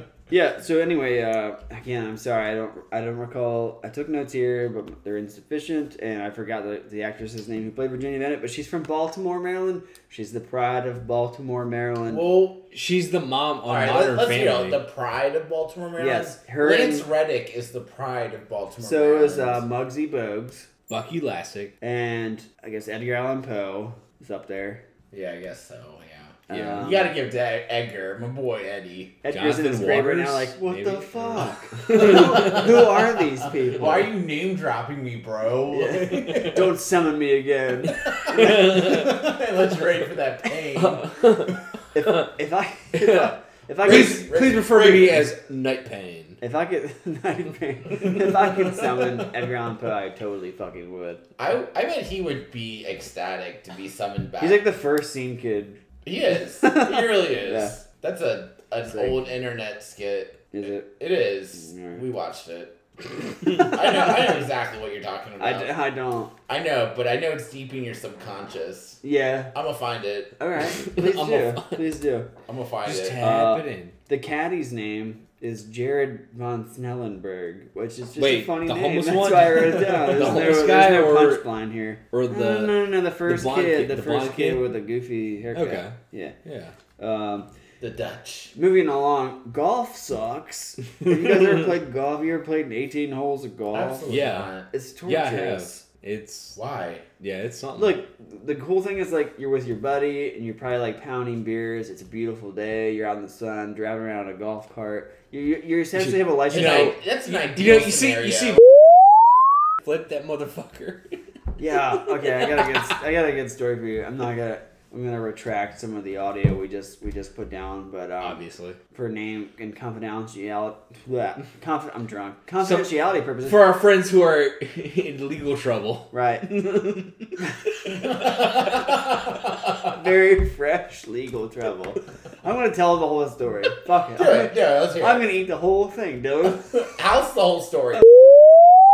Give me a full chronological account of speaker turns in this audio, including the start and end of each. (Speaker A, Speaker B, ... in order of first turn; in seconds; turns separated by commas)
Speaker A: 0.3-12.3, Speaker B: 12.1-12.6, Speaker C: 12.7-14.8, Speaker B: 13.7-19.6, Speaker A: 16.0-17.1, Speaker A: 18.8-20.7, Speaker C: 20.9-21.7, Speaker A: 21.8-24.8, Speaker B: 25.1-29.2, Speaker A: 26.5-27.1, Speaker A: 29.2-34.1, Speaker C: 29.3-32.6, Speaker B: 31.9-33.0, Speaker B: 33.7-36.7, Speaker A: 35.7-39.1, Speaker B: 38.1-41.2, Speaker C: 38.3-39.1, Speaker C: 40.7-42.3, Speaker A: 41.9-44.3, Speaker C: 42.9-46.4, Speaker B: 43.8-45.3, Speaker A: 46.4-51.2, Speaker B: 51.4-54.6, Speaker A: 54.4-55.8, Speaker B: 56.0-62.8, Speaker A: 56.6-57.7, Speaker A: 58.9-59.3, Speaker A: 60.5-60.9, Speaker A: 61.5-62.0, Speaker B: 63.4-65.7, Speaker A: 65.4-66.3, Speaker B: 66.5-69.0, Speaker A: 69.0-69.5, Speaker B: 69.5-70.3, Speaker A: 70.4-72.3, Speaker C: 70.8-71.8, Speaker B: 72.5-73.2, Speaker C: 72.8-73.9, Speaker A: 73.2-86.3, Speaker C: 78.2-81.5, Speaker C: 82.1-84.7, Speaker C: 85.5-86.7, Speaker A: 87.0-87.5, Speaker B: 87.8-88.5, Speaker A: 88.5-94.1, Speaker B: 93.7-94.7, Speaker C: 94.1-94.5, Speaker A: 94.7-95.8, Speaker C: 95.0-96.6, Speaker B: 96.5-97.0, Speaker C: 97.2-98.0, Speaker A: 97.8-107.0, Speaker C: 106.0-108.7, Speaker B: 106.5-108.6, Speaker C: 109.8-111.1, Speaker A: 111.6-123.7, Speaker C: 112.2-112.8, Speaker C: 118.2-118.8, Speaker C: 122.6-128.3, Speaker A: 126.1-126.8, Speaker B: 128.0-129.9, Speaker A: 129.8-136.8, Speaker B: 134.2-135.3, Speaker B: 136.7-138.0